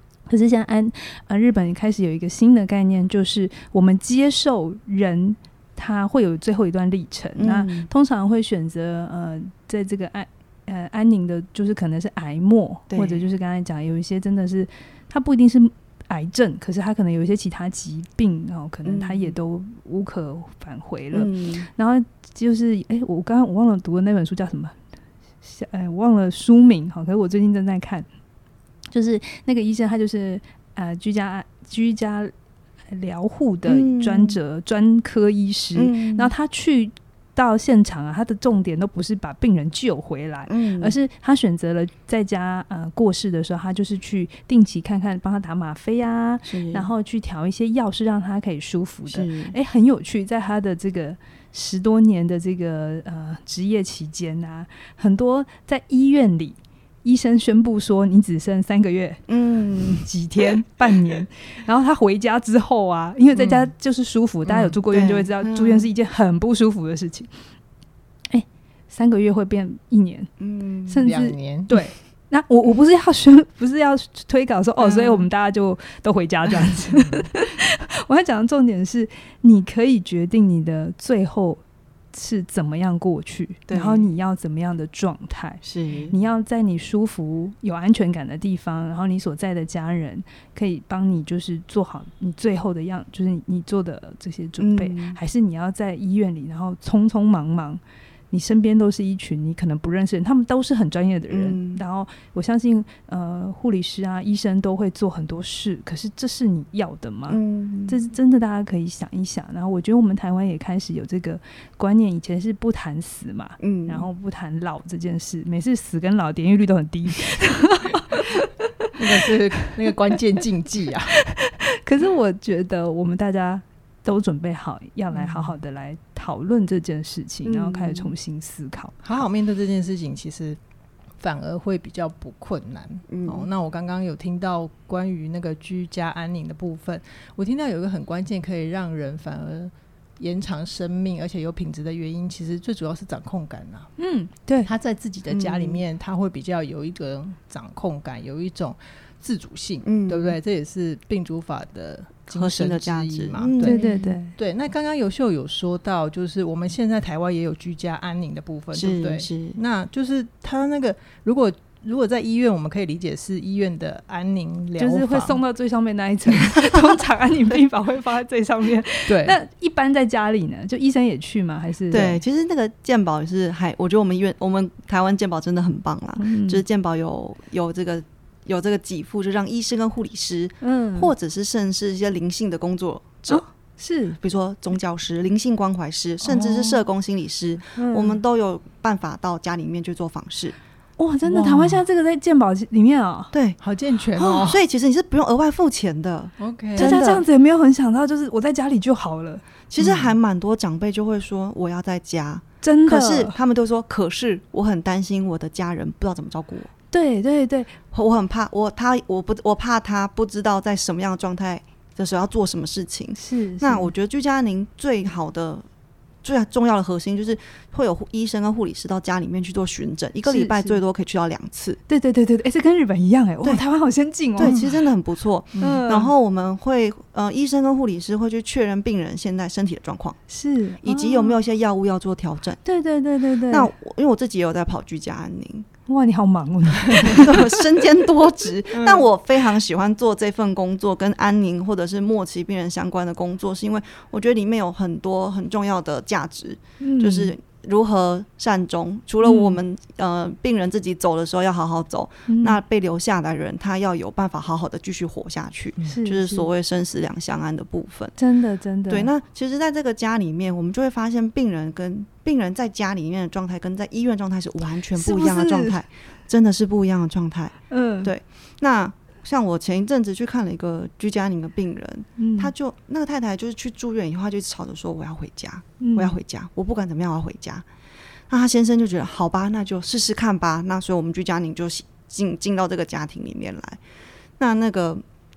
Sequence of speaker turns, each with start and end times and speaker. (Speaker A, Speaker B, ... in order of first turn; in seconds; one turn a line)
Speaker A: 0.3-24.8
Speaker B: 7.4-7.9
Speaker B: 12.9-13.3
Speaker B: 18.9-19.4
Speaker B: 21.1-21.7
Speaker A: 25.4-28.1
Speaker A: 28.9-32.3
Speaker A: 32.9-59.2
Speaker B: 33.7-34.4
Speaker B: 35.8-36.3
Speaker B: 40.5-41.0
Speaker B: 46.5-46.9
Speaker B: 49.1-49.5
Speaker B: 59.3-60.1
Speaker A: 60.0-67.3
Speaker B: 63.4-63.7
Speaker C: 64.5-64.7
Speaker B: 64.9-65.9
Speaker A: 68.3-70.3
Speaker B: 70.4-71.1
Speaker A: 70.9-81.6
Speaker C: 71.0-71.8
Speaker B: 74.8-75.3
Speaker C: 76.9-77.3
Speaker A: 82.1-119.7
Speaker B: 83.7-84.1
Speaker B: 85.6-86.1
Speaker B: 94.6-95.2
Speaker B: 101.3-101.8
Speaker B: 107.3-108.0
Speaker B: 113.6-114.1
Speaker C: 119.0-121.1
Speaker A: 121.2-129.0
Speaker C: 125.1-125.6
Speaker B: 127.5-128.1
Speaker C: 129.0-130.6
Speaker C: 131.2-143.9
Speaker B: 133.1-133.5
Speaker A: 144.0-144.7
Speaker C: 144.7-165.4
Speaker B: 145.3-145.8
Speaker B: 149.8-150.4
Speaker B: 152.3-154.2
Speaker A: 153.6-154.3
Speaker B: 158.7-159.6
Speaker A: 164.8-172.2
Speaker C: 169.1-169.4
Speaker B: 171.9-183.4
Speaker A: 176.2-176.6
Speaker A: 180.6-181.1
Speaker A: 183.3-184.2
Speaker B: 184.2-190.6
Speaker C: 186.3-186.8
Speaker A: 187.8-188.2
Speaker A: 191.0-193.3
Speaker C: 191.3-191.8
Speaker B: 193.3-193.6
Speaker C: 193.6-194.6
Speaker B: 194.2-197.2
Speaker C: 196.4-197.0
Speaker A: 196.8-199.4
Speaker B: 199.7-206.7
Speaker C: 199.8-200.2
Speaker A: 202.6-203.3
Speaker A: 206.9-207.8
Speaker B: 207.9-215.7
Speaker A: 213.2-213.9
Speaker B: 216.2-221.8
Speaker A: 220.2-220.8
Speaker A: 221.9-224.6
Speaker B: 224.4-230.2
Speaker C: 224.4-224.8
Speaker C: 225.6-225.8
Speaker A: 225.6-226.1
Speaker A: 230.3-231.4
Speaker B: 230.8-232.6
Speaker A: 232.7-233.7
Speaker B: 233.5-235.7
Speaker A: 235.9-237.6
Speaker B: 236.9-258.2
Speaker C: 238.7-239.0
Speaker A: 246.8-247.3
Speaker A: 249.2-249.6
Speaker A: 252.3-252.6
Speaker A: 255.8-256.5
Speaker A: 258.2-259.1
Speaker B: 258.9-277.7
Speaker A: 265.0-265.8
Speaker A: 267.7-268.1
Speaker A: 272.2-272.5
Speaker A: 275.8-276.1
Speaker B: 278.3-283.8
Speaker B: 284.4-285.0